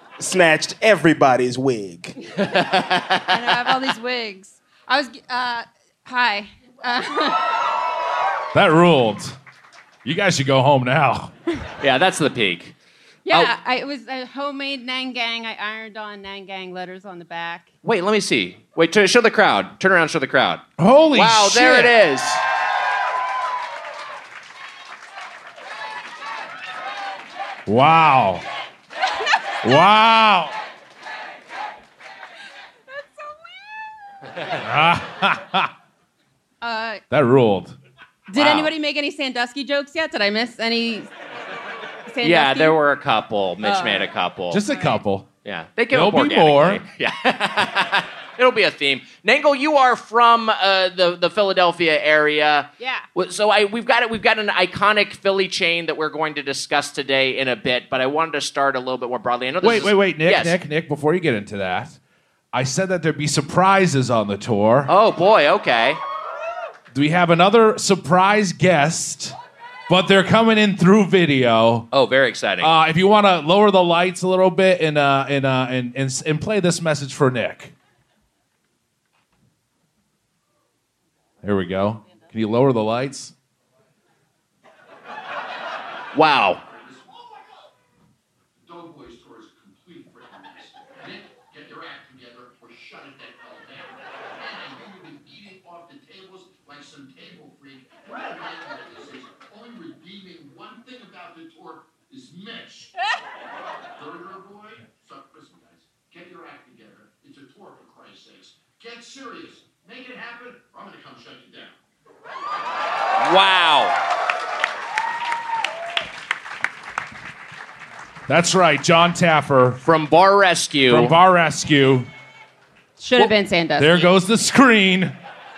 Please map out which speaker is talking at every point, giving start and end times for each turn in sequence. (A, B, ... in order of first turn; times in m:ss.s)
0:00.2-0:02.2 A
0:02.4-0:03.6 B
0:03.3-0:07.5 C
0:08.5-0:09.4 D
0:10.0-0:11.3 D
0:11.8-0:12.8 B
0:13.2-0:17.7 C
0:17.8-0:22.4 B
0:20.8-0:22.0 D
0:27.7-0:28.4 D
0:29.6-0:30.5 D
0:34.6-0:35.7 D
0:36.6-0:37.0 C
0:37.1-0:37.8 D
0:38.3-0:41.1 C
0:38.4-0:38.7 B
0:42.1-0:42.8 C
0:42.2-0:44.6 B
0:43.6-0:44.1 C
0:44.5-0:45.3 D
0:45.4-1:00.6 B
0:45.9-0:46.8 D
0:52.8-0:53.1 C
0:59.6-1:02.0 D
1:02.5-1:04.9 D
1:04.9-1:06.0 B
1:06.9-1:09.4 D
1:09.9-1:11.9 D
1:11.9-1:12.7 B
1:12.6-1:17.7 D
1:21.4-1:23.3 D
1:26.2-1:26.6 B
1:26.6-1:27.6 E
1:28.6-1:42.9 E
1:44.0-1:51.8 E
1:53.2-1:54.0 B
1:58.3-1:59.8 D
1:59.8-2:01.1 B
2:00.9-2:02.1 D
2:03.0-2:04.1 C
2:03.8-2:05.2 D